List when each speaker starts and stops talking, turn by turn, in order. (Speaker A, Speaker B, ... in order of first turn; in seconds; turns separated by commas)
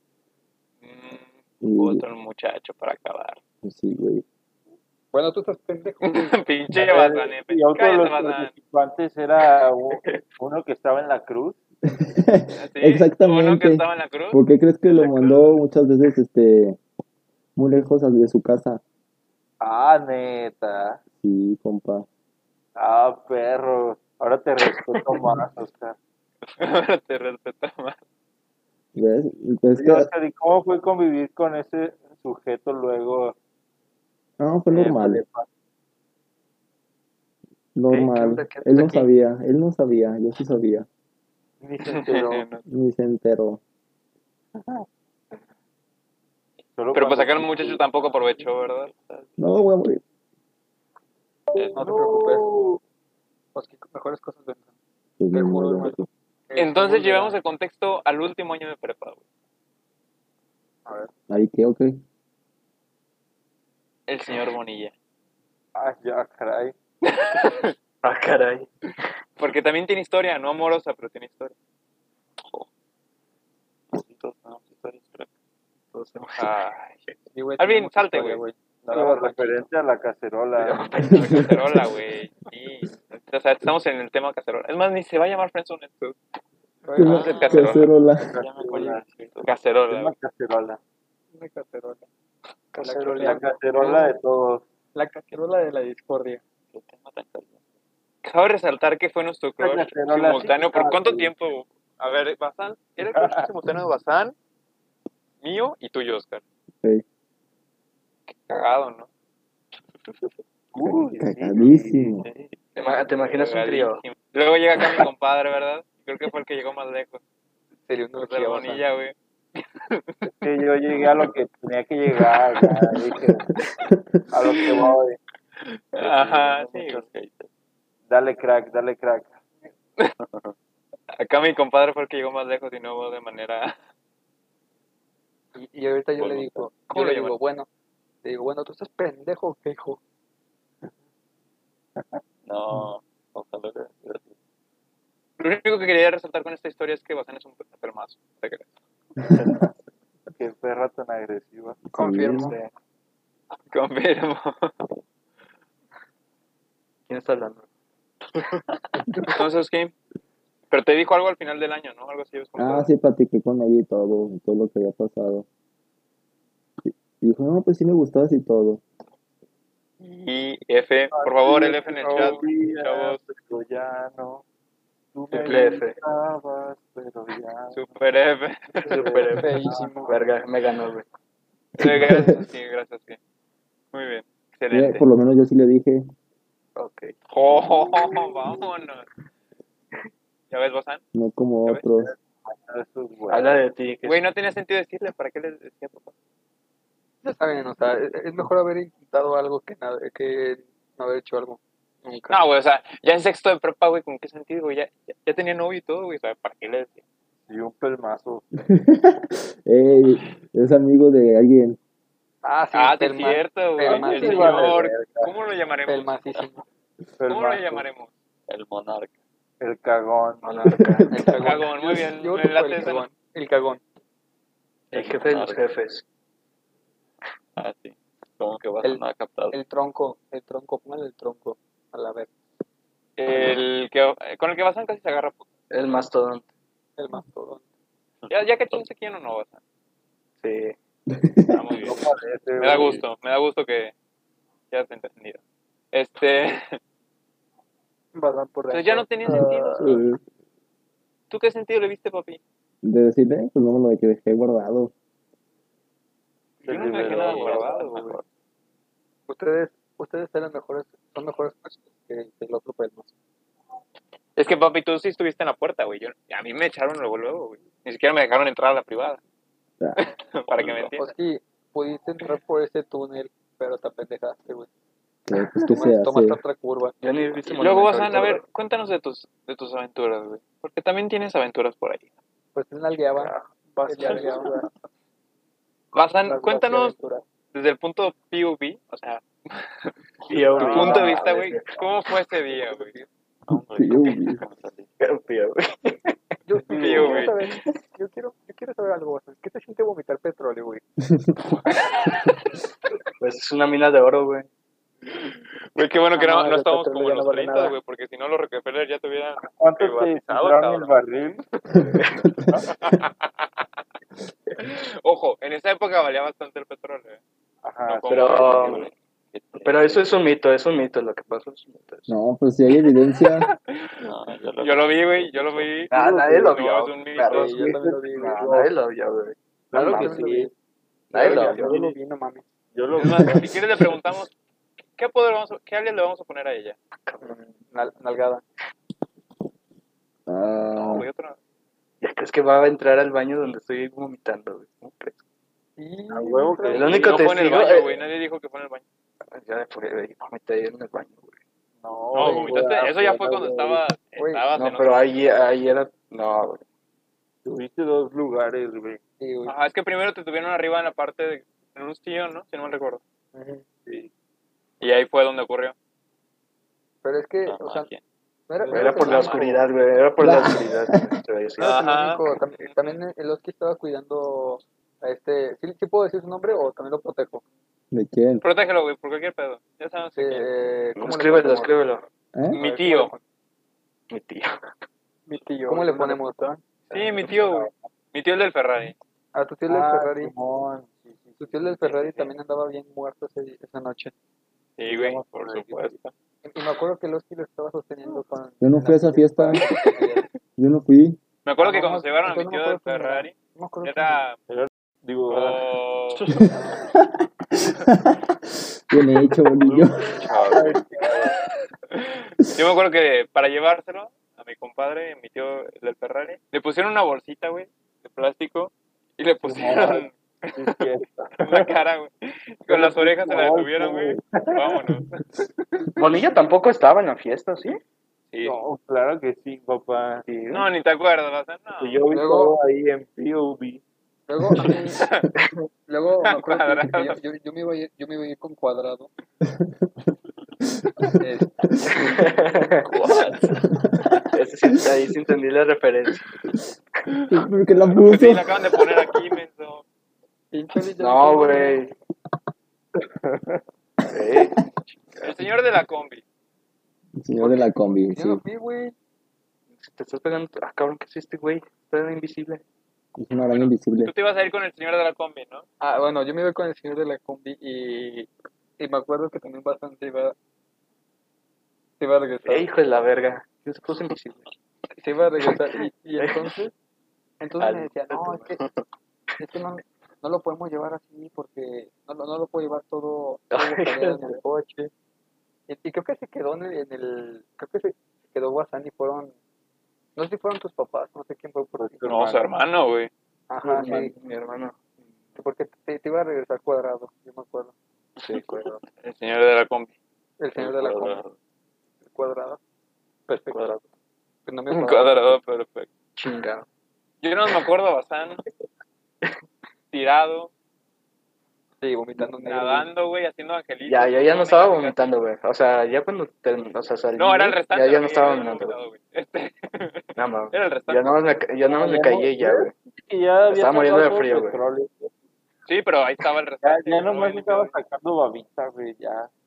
Speaker A: 0.8-3.4, Speaker B: 1.6-2.0, Speaker B: 3.6-4.2, Speaker C: 5.1-6.5, Speaker A: 6.0-8.5, Speaker D: 6.7-11.6, Speaker B: 11.9-16.8, Speaker A: 12.6-15.6, Speaker B: 17.6-18.8, Speaker D: 19.6-21.0, Speaker B: 21.2-22.1, Speaker D: 22.8-26.0, Speaker A: 24.9-25.2, Speaker A: 26.6-28.0, Speaker B: 28.9-30.1, Speaker D: 29.7-33.4, Speaker B: 34.4-35.2, Speaker D: 34.7-35.5, Speaker B: 37.7-40.9, Speaker E: 37.9-38.9, Speaker D: 41.6-42.5, Speaker A: 41.8-42.6, Speaker B: 42.6-43.6, Speaker D: 44.6-44.8, Speaker D: 46.8-47.8, Speaker A: 46.9-48.9, Speaker F: 48.0-49.6, Speaker B: 49.4-50.0, Speaker C: 51.7-52.5, Speaker D: 51.7-52.8, Speaker C: 53.5-54.7, Speaker B: 55.2-56.1, Speaker C: 55.3-57.4, Speaker A: 56.5-59.2, Speaker C: 60.9-61.1, Speaker B: 61.3-62.0, Speaker A: 64.1-64.9, Speaker D: 65.7-66.7, Speaker A: 67.0-67.7, Speaker E: 68.0-68.7, Speaker A: 69.4-71.5, Speaker F: 72.4-72.7, Speaker F: 73.9-75.3, Speaker E: 75.9-76.5, Speaker A: 76.4-77.0, Speaker C: 77.3-79.7, Speaker A: 77.6-78.4, Speaker D: 78.8-80.9, Speaker E: 80.6-81.6, Speaker A: 81.1-86.2, Speaker C: 86.8-87.7, Speaker B: 87.0-88.3, Speaker A: 87.0-87.9, Speaker F: 87.0-89.6, Speaker D: 88.2-89.0, Speaker C: 88.7-89.0, Speaker A: 89.4-90.1, Speaker D: 89.8-90.8, Speaker C: 91.3-92.0, Speaker G: 92.7-93.4, Speaker C: 92.8-94.1, Speaker D: 93.2-94.6, Speaker C: 94.9-96.4, Speaker F: 96.7-97.6, Speaker A: 98.2-104.3, Speaker D: 99.6-101.3, Speaker D: 103.1-103.5, Speaker A: 105.4-106.4, Speaker A: 108.3-109.1, Speaker D: 110.7-112.2, Speaker B: 110.8-112.2, Speaker F: 112.2-112.6, Speaker E: 112.8-114.0, Speaker A: 112.9-117.2, Speaker C: 117.9-118.8, Speaker A: 118.2-120.3, Speaker D: 120.3-123.5, Speaker B: 122.6-122.9, Speaker B: 123.8-124.2, Speaker D: 124.3-125.2, Speaker A: 124.4-124.9, Speaker A: 125.6-127.0, Speaker F: 126.0-127.5, Speaker D: 128.1-129.4, Speaker F: 130.2-130.6, Speaker A: 131.1-133.8, Speaker C: 135.6-137.7, Speaker F: 136.2-136.7, Speaker A: 136.9-137.4, Speaker C: 138.2-140.0, Speaker F: 142.4-144.3, Speaker A: 145.4-148.7, Speaker D: 150.3-151.8, Speaker B: 151.9-152.6, Speaker C: 151.9-152.6, Speaker E: 152.4-152.7, Speaker A: 153.7-154.7, Speaker E: 157.1-157.7, Speaker A: 159.3-159.9, Speaker A: 160.7-162.9, Speaker B: 162.6-165.4, Speaker B: 166.8-168.8, Speaker A: 170.0-173.2, Speaker D: 171.1-174.4, Speaker C: 172.0-172.4, Speaker D: 175.1-177.8, Speaker E: 175.3-176.0, Speaker A: 177.7-179.3, Speaker D: 178.8-179.9, Speaker E: 178.9-181.1, Speaker C: 179.4-180.2, Speaker A: 181.8-183.2, Speaker B: 181.8-182.4, Speaker A: 183.9-185.1, Speaker B: 184.7-186.1, Speaker E: 186.8-188.3, Speaker A: 187.3-189.1, Speaker A: 190.5-191.0, Speaker B: 191.1-192.1, Speaker D: 192.1-193.6, Speaker E: 193.3-194.2, Speaker A: 194.0-196.1, Speaker C: 197.2-202.4, Speaker A: 202.3-207.0, Speaker D: 207.5-208.4, Speaker B: 208.7-211.8, Speaker C: 212.4-214.8, Speaker A: 212.7-216.5, Speaker D: 213.8-215.3, Speaker C: 215.9-216.6, Speaker D: 217.2-217.9, Speaker A: 217.3-218.1, Speaker F: 218.5-219.1, Speaker D: 219.6-220.6, Speaker E: 220.4-221.1, Speaker B: 220.8-221.4, Speaker C: 221.1-223.8, Speaker A: 221.4-223.1, Speaker E: 224.9-226.1, Speaker F: 224.9-225.7, Speaker F: 227.6-229.6, Speaker C: 228.8-232.3, Speaker A: 233.2-235.5, Speaker E: 235.7-236.5, Speaker C: 237.0-237.6, Speaker F: 238.2-238.8, Speaker A: 238.3-239.6, Speaker E: 240.4-240.7, Speaker B: 241.1-241.5, Speaker A: 241.5-242.1, Speaker D: 241.8-243.0, Speaker A: 242.6-243.9, Speaker A: 244.7-245.4, Speaker A: 245.9-246.8, Speaker G: 248.1-249.9, Speaker A: 248.7-250.0, Speaker B: 249.3-250.2, Speaker A: 251.3-252.4, Speaker B: 252.8-254.9, Speaker A: 256.6-258.2, Speaker D: 256.6-257.9, Speaker E: 256.6-258.2, Speaker C: 259.3-263.1, Speaker A: 264.4-269.2, Speaker A: 269.9-271.1, Speaker C: 271.0-274.7, Speaker B: 275.3-276.4, Speaker C: 275.6-276.9, Speaker E: 277.0-278.4, Speaker A: 277.5-282.1, Speaker C: 282.6-283.3, Speaker E: 283.1-283.5, Speaker G: 283.7-284.7, Speaker C: 283.8-284.7, Speaker A: 285.9-286.9, Speaker C: 286.2-287.2, Speaker A: 287.5-289.9, Speaker E: 290.3-291.7, Speaker C: 290.6-291.1, Speaker D: 290.6-291.1, Speaker A: 290.6-292.9, Speaker C: 292.6-293.1, Speaker F: 293.5-294.9, Speaker B: 293.5-294.4, Speaker E: 295.0-296.1, Speaker C: 296.4-300.8, Speaker E: 296.7-297.3, Speaker A: 296.7-297.6, Speaker B: 301.1-301.6, Speaker E: 303.2-304.5, Speaker A: 305.7-311.0, Speaker C: 306.1-307.8, Speaker D: 309.4-311.4, Speaker E: 311.7-312.3, Speaker A: 312.7-313.6, Speaker A: 314.6-317.2, Speaker D: 317.6-318.7, Speaker A: 317.9-318.9, Speaker E: 318.1-318.8, Speaker F: 318.6-320.1, Speaker E: 319.6-322.1, Speaker B: 322.1-323.5, Speaker A: 323.4-327.6, Speaker F: 324.0-325.7, Speaker E: 325.9-327.6, Speaker D: 325.9-326.5, Speaker C: 327.3-328.6, Speaker D: 327.3-328.7, Speaker E: 328.2-330.2, Speaker D: 329.7-330.5, Speaker C: 329.7-330.5, Speaker C: 331.1-332.4, Speaker E: 331.1-331.9, Speaker D: 331.2-331.7, Speaker D: 332.7-333.6, Speaker A: 332.9-334.3, Speaker A: 335.0-336.8, Speaker E: 337.1-337.4, Speaker C: 337.2-338.4, Speaker B: 340.3-341.1, Speaker A: 340.7-341.4, Speaker E: 342.0-345.2, Speaker C: 345.8-347.1, Speaker D: 346.1-347.6, Speaker E: 346.7-348.0, Speaker A: 346.9-348.8, Speaker E: 349.3-351.4, Speaker D: 351.8-353.8, Speaker A: 352.1-355.0, Speaker C: 352.2-352.6, Speaker C: 354.1-354.5, Speaker E: 354.6-356.6, Speaker D: 357.4-359.0, Speaker C: 359.2-359.6, Speaker A: 359.4-363.0, Speaker C: 363.3-363.6, Speaker A: 364.8-365.7, Speaker C: 367.0-367.9, Speaker F: 367.4-368.0, Speaker C: 368.5-369.6, Speaker D: 368.6-369.6, Speaker E: 368.7-371.7, Speaker B: 370.2-371.0, Speaker C: 371.6-377.4, Speaker A: 371.6-373.0, Speaker B: 377.9-378.4, Speaker A: 378.4-380.5, Speaker C: 380.1-381.8, Speaker E: 380.9-382.1, Speaker A: 382.5-383.1, Speaker C: 382.5-383.2, Speaker E: 384.1-384.6, Speaker G: 385.3-386.3, Speaker C: 385.7-386.6, Speaker A: 386.9-388.9, Speaker D: 387.0-387.7, Speaker C: 389.3-390.3, Speaker D: 389.7-392.3, Speaker C: 391.4-394.1, Speaker A: 394.8-396.0, Speaker D: 394.9-396.0, Speaker C: 396.4-400.3, Speaker B: 398.6-399.6, Speaker A: 399.6-400.0, Speaker B: 400.6-401.2, Speaker A: 401.4-404.4, Speaker C: 401.6-404.2, Speaker D: 404.5-405.7, Speaker A: 405.3-406.2, Speaker B: 407.5-408.2, Speaker B: 408.9-410.1, Speaker A: 410.2-411.4, Speaker D: 410.3-411.4, Speaker A: 411.9-420.8, Speaker D: 419.4-421.8, Speaker A: 421.4-425.1, Speaker D: 422.7-424.9, Speaker E: 425.9-427.8, Speaker A: 428.3-428.6, Speaker D: 428.4-430.3, Speaker E: 430.3-430.7, Speaker A: 430.5-432.1, Speaker D: 431.8-433.8, Speaker C: 432.1-432.6, Speaker C: 434.3-435.0, Speaker A: 434.6-435.3, Speaker E: 435.4-435.7, Speaker C: 435.9-439.1, Speaker A: 436.2-437.2, Speaker B: 439.4-439.9, Speaker C: 441.2-441.9, Speaker E: 441.9-442.9, Speaker F: 442.9-443.6, Speaker B: 443.4-444.1, Speaker E: 444.2-446.3, Speaker B: 447.3-448.6, Speaker A: 447.9-449.8, Speaker C: 450.5-451.8, Speaker E: 451.0-451.9, Speaker D: 453.2-453.6, Speaker E: 454.1-454.6, Speaker A: 455.2-456.2, Speaker B: 457.2-458.4, Speaker C: 457.4-458.9, Speaker E: 459.8-462.6, Speaker B: 463.1-464.1, Speaker A: 463.3-465.6, Speaker C: 465.8-470.4, Speaker C: 472.0-472.7, Speaker E: 472.4-474.5, Speaker C: 475.0-476.7, Speaker E: 475.4-476.6, Speaker C: 477.4-478.6, Speaker E: 477.6-478.8, Speaker C: 479.4-484.9, Speaker E: 483.5-484.4, Speaker C: 485.7-489.3, Speaker C: 490.1-492.4, Speaker D: 491.8-492.4, Speaker A: 492.0-493.1, Speaker E: 493.5-494.8, Speaker C: 493.6-494.1, Speaker C: 495.4-497.7, Speaker E: 498.2-498.8, Speaker A: 499.0-499.9, Speaker C: 500.4-501.2, Speaker F: 500.6-501.3, Speaker C: 502.1-502.6, Speaker C: 503.3-503.6, Speaker E: 503.5-503.8, Speaker C: 504.4-505.3, Speaker A: 504.7-505.9, Speaker E: 506.1-506.6, Speaker A: 507.2-508.4, Speaker A: 509.9-510.5, Speaker C: 511.8-512.9, Speaker A: 512.4-515.0, Speaker E: 513.9-518.8, Speaker A: 517.2-521.2, Speaker E: 520.1-522.7, Speaker D: 521.6-525.1, Speaker E: 523.5-524.6, Speaker A: 525.7-527.7, Speaker D: 526.6-529.3